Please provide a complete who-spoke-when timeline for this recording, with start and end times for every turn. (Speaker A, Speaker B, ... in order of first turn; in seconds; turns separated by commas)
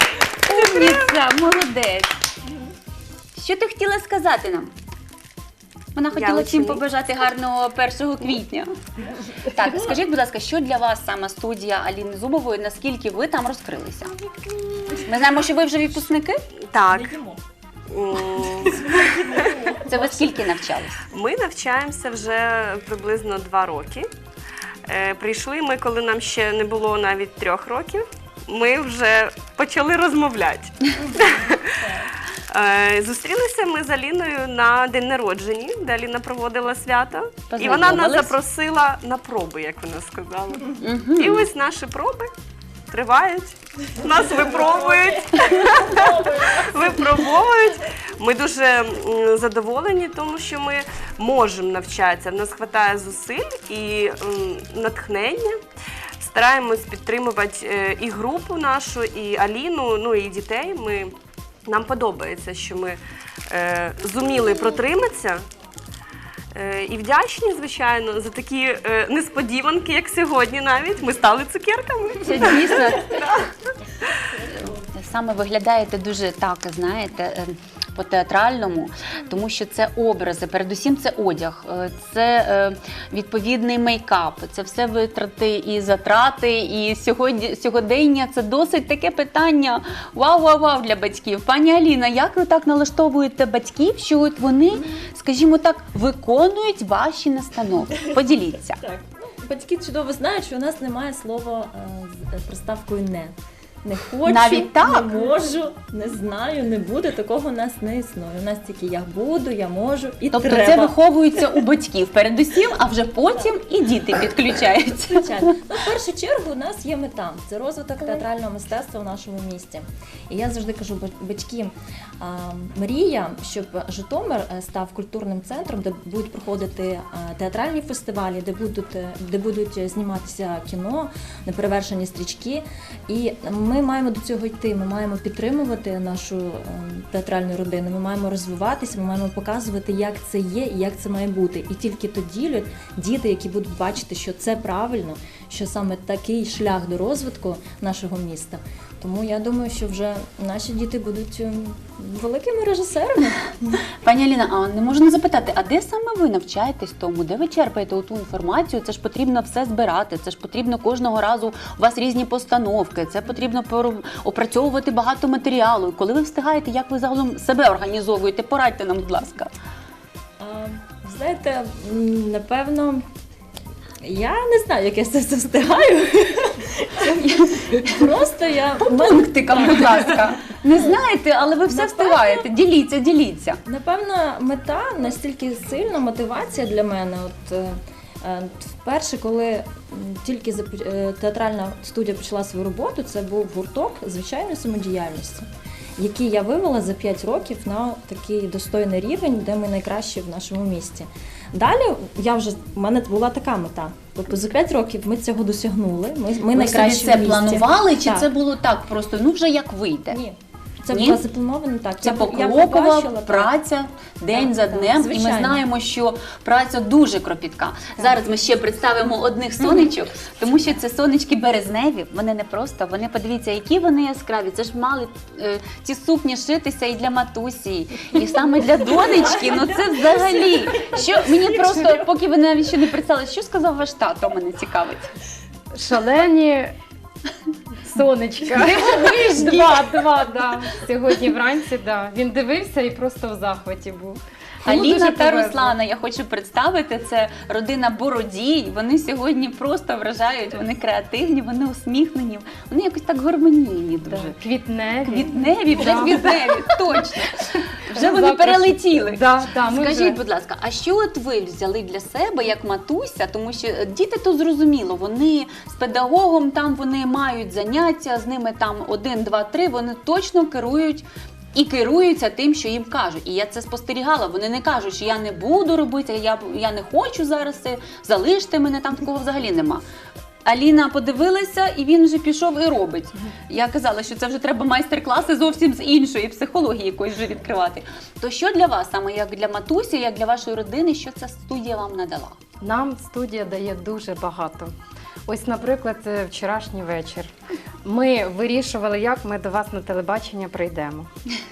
Speaker A: 0.5-2.1, Speaker B: 0.5-1.1, Speaker A: 3.4-4.7, Speaker A: 6.0-8.7, Speaker B: 6.1-6.8, Speaker A: 9.5-14.1, Speaker A: 15.0-16.4, Speaker B: 16.7-17.2, Speaker C: 16.9-17.4, Speaker B: 17.9-19.6, Speaker C: 18.6-20.2, Speaker A: 19.9-21.0, Speaker B: 21.1-24.1, Speaker B: 24.9-31.9, Speaker B: 32.5-42.3, Speaker A: 37.5-38.4, Speaker A: 40.8-41.5, Speaker B: 42.9-55.6, Speaker B: 56.2-61.1, Speaker B: 61.6-63.0, Speaker B: 63.5-65.4, Speaker B: 66.5-74.1, Speaker A: 72.2-73.2, Speaker A: 74.5-98.8, Speaker C: 98.8-110.9, Speaker A: 104.2-105.3, Speaker A: 110.3-115.4, Speaker C: 115.1-153.8, Speaker A: 154.0-169.5, Speaker C: 170.4-173.0, Speaker C: 174.1-177.3, Speaker A: 177.2-178.1, Speaker C: 177.8-181.0, Speaker A: 178.8-183.6, Speaker C: 181.7-182.5, Speaker C: 183.6-208.3, Speaker A: 206.5-210.2, Speaker C: 210.1-213.5, Speaker A: 210.9-211.2, Speaker A: 212.0-235.1, Speaker C: 214.4-215.6, Speaker C: 229.3-230.3, Speaker D: 235.7-236.7, Speaker D: 237.8-245.8, Speaker A: 244.6-254.3, Speaker D: 254.1-257.1, Speaker A: 255.0-279.8, Speaker D: 257.9-260.2, Speaker A: 280.5-292.4, Speaker D: 292.6-294.7, Speaker D: 295.3-297.3, Speaker D: 297.8-301.1